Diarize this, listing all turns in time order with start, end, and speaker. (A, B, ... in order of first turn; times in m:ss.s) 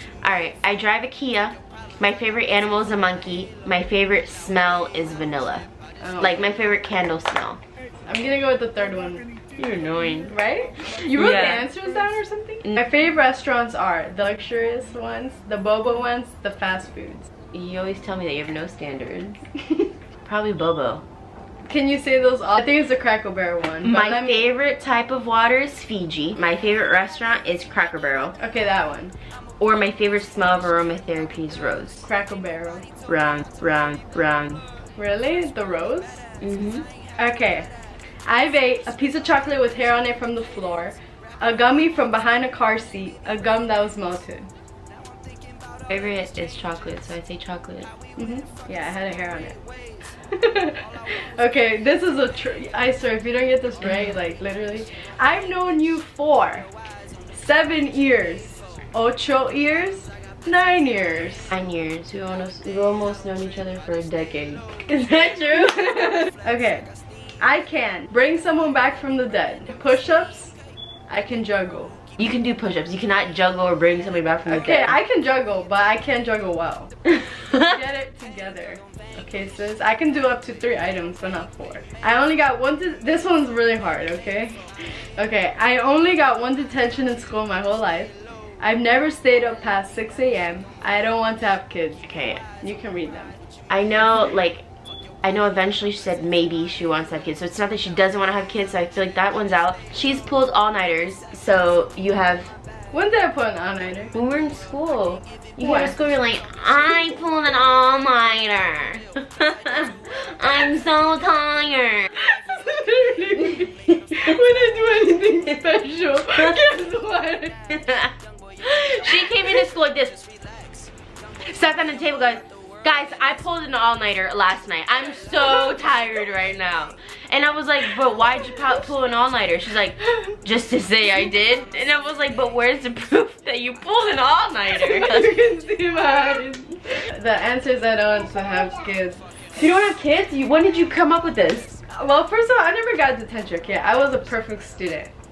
0:00.2-0:05.7 A
0:06.0-0:06.4 B
0:06.2-0:07.6 A
0:08.1-0:09.2 B
0:09.6-0:10.3 A
0:10.3-0:17.3 B
0:11.2-0:11.5 A
0:17.5-0:19.4 A
0:20.2-0:21.0 A
0:21.7-0:24.4 B
0:23.8-0:28.4 A
0:28.4-0:29.1 B
0:29.6-0:32.1 A
0:32.1-0:32.8 B
0:33.1-0:34.6 A
0:35.0-0:36.2 B
0:36.4-0:36.8 A
0:37.2-0:37.7 B
0:38.2-0:44.5 B
0:45.9-0:47.9 A
0:48.2-0:49.6 B
0:50.3-0:56.7 B
0:57.3-1:01.5 B
1:01.5-1:06.3 A
1:06.4-1:06.9 B
1:07.4-1:10.5 B
1:11.1-1:11.9 B
1:12.2-1:15.0 A
1:14.4-1:17.0 B
1:17.6-1:32.0 B
1:32.0-1:32.4 A
1:32.6-1:33.4 B
1:33.7-1:34.6 A
1:35.2-1:42.5 A
1:42.9-1:44.1 B
1:44.1-1:52.1 A
1:45.6-1:45.9 B
1:52.2-1:57.6 B
1:57.7-2:00.2 A
2:01.5-2:15.3 A
2:14.7-2:19.2 B
2:19.5-2:21.7 A
2:21.9-2:25.1 B